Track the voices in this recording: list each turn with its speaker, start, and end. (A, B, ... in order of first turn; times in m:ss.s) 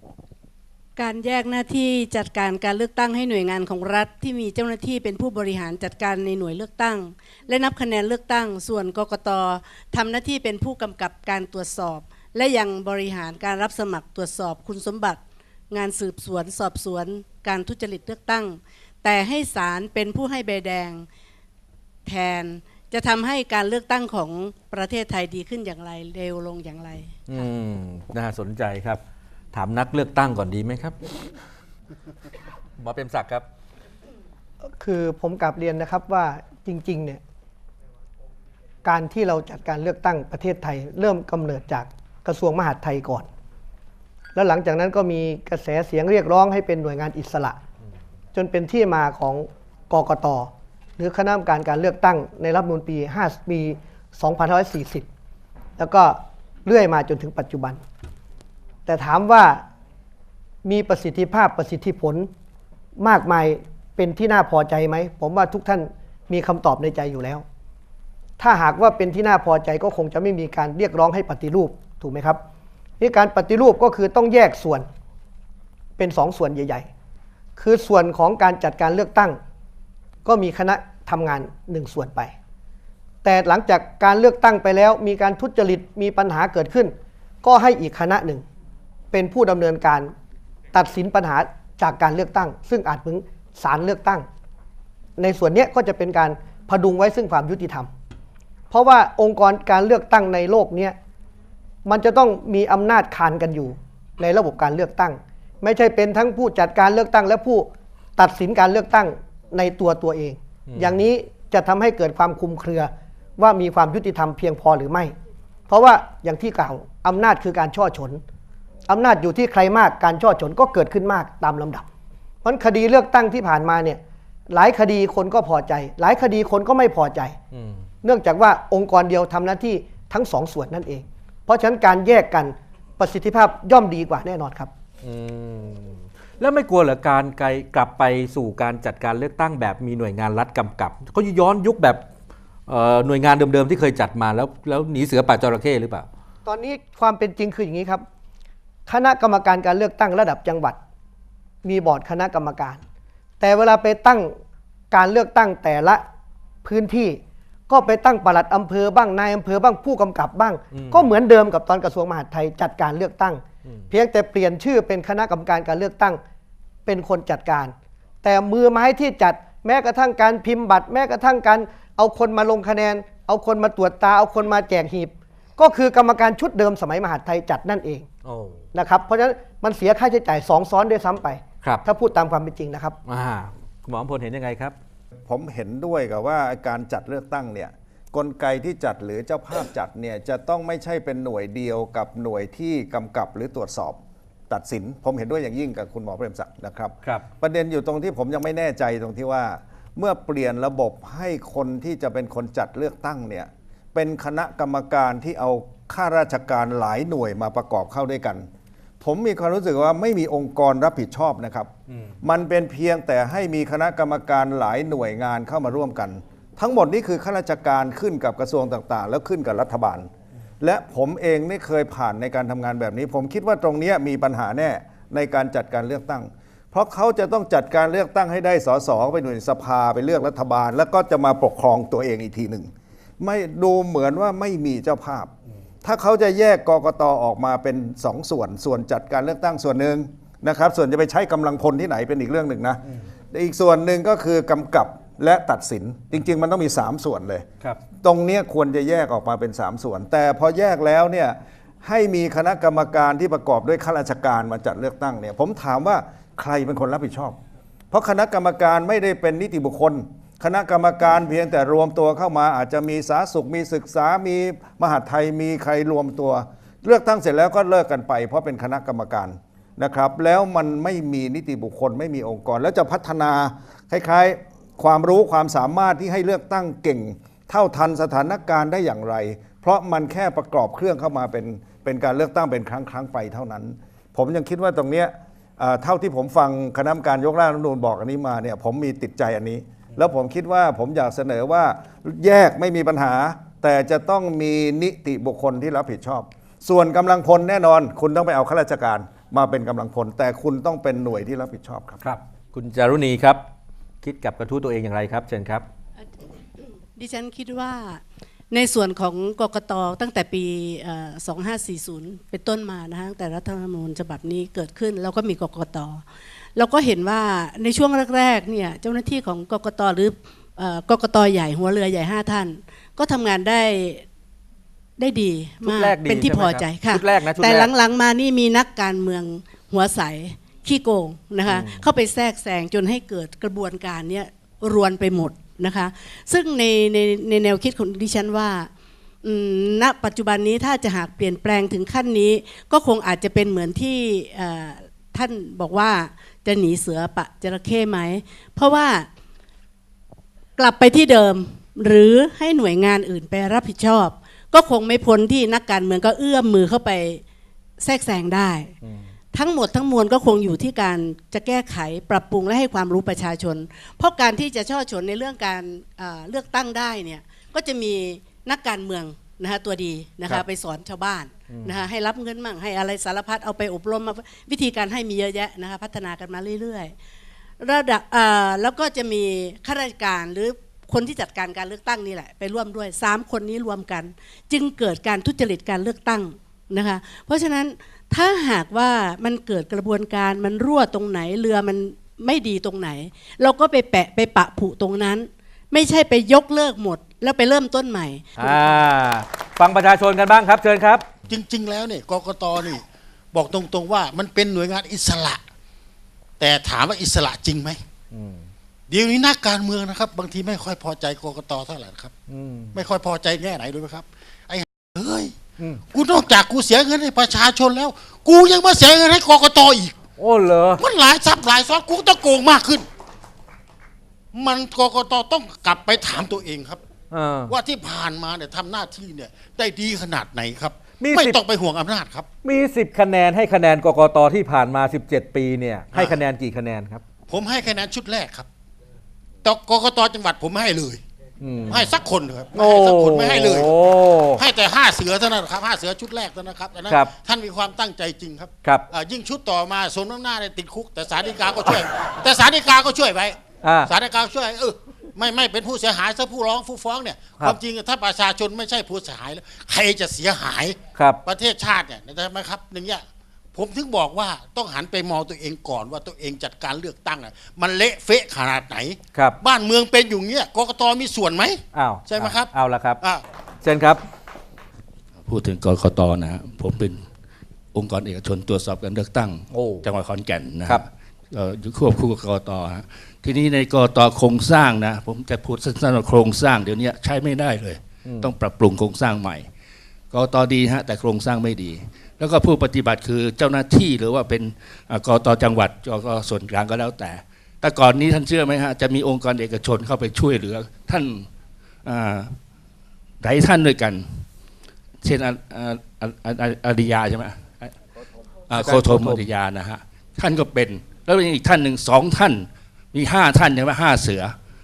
0:01.0-0:15.2 A
0:15.7-0:21.0 A
0:22.0-0:27.1 A
0:27.3-0:29.0 B
0:29.5-0:31.0 B
0:32.8-0:33.4 B
0:34.7-0:37.2 C
0:38.8-0:43.3 C
0:44.3-0:47.6 C
0:48.3-0:55.1 C
0:55.8-0:57.8 C
0:58.8-0:59.6 C
1:00.6-1:02.3 C
1:03.0-1:07.4 C
1:08.4-1:12.4 C
1:13.0-1:14.9 C
1:16.0-1:16.9 C
1:17.6-1:19.4 C
1:20.2-1:22.3 C
1:23.2-1:28.4 C
1:29.1-1:30.1 C
1:30.7-1:34.3 C
1:35.2-1:37.9 C
1:38.7-1:41.0 C
1:41.8-1:55.1 C
1:50.7-1:51.0 B
1:55.7-1:58.2 C
1:58.9-2:01.8 C
2:02.4-2:07.4 C
2:07.5-2:07.8 B
2:08.0-2:14.7 C
2:15.0-2:22.0 B
2:22.7-2:26.1 B
2:26.4-2:28.0 C
2:28.9-2:30.8 C
2:31.6-2:32.8 C
2:33.4-2:34.3 C
2:34.9-2:36.0 C
2:36.6-2:46.2 C
2:40.7-2:41.1 B
2:43.6-2:43.9 B
2:46.8-2:58.1 C
2:58.2-2:58.6 B
2:58.7-3:03.0 C
3:03.0-3:04.7 B
3:05.3-3:14.0 D
3:14.5-3:28.5 D
3:29.0-3:31.7 D
3:32.2-3:40.1 D
3:40.6-3:55.3 D
3:55.8-4:07.4 D
4:08.0-4:17.4 D
4:17.9-5:02.0 D
5:02.0-5:03.4 B
5:04.0-5:05.6 B
5:06.6-5:16.0 A
5:16.6-5:24.0 A
5:25.0-5:38.7 A
5:25.6-5:27.7 B
5:31.4-5:31.8 B
5:39.2-5:49.1 A
5:50.6-5:57.2 A
5:57.8-5:58.7 A
5:58.8-5:59.1 B
5:59.3-6:16.9 A
6:11.5-6:11.8 B
6:17.6-6:38.6 A
6:38.4-6:41.0 B
6:41.3-6:45.4 E
6:46.4-6:47.8 E
6:48.1-6:48.5 B
6:48.9-6:52.1 E
6:52.3-6:52.8 B
6:52.7-6:55.3 E
6:55.9-7:00.0 E
7:00.2-7:00.8 B
7:00.8-7:02.8 E
7:04.3-7:06.8 E
7:07.1-7:07.5 B
7:07.5-7:12.3 E
7:11.0-7:11.4 B
7:12.4-7:17.0 B
7:15.9-7:16.2 E
7:17.3-7:18.5 E
7:19.4-7:21.0 E
7:21.4-7:21.8 B
7:21.7-7:53.2 E
7:22.5-7:24.4 B
7:33.6-7:33.9 B
7:40.9-7:41.2 B
7:51.7-7:53.0 B
7:53.6-7:54.0 B
7:55.2-7:57.0 F
7:57.7-8:09.4 F
7:59.5-7:59.8 B
8:08.0-8:08.3 B
8:10.1-8:21.3 F
8:21.8-8:22.4 F
8:23.2-8:24.2 F
8:25.0-8:27.7 F
8:28.5-8:34.3 F
8:28.6-8:29.3 B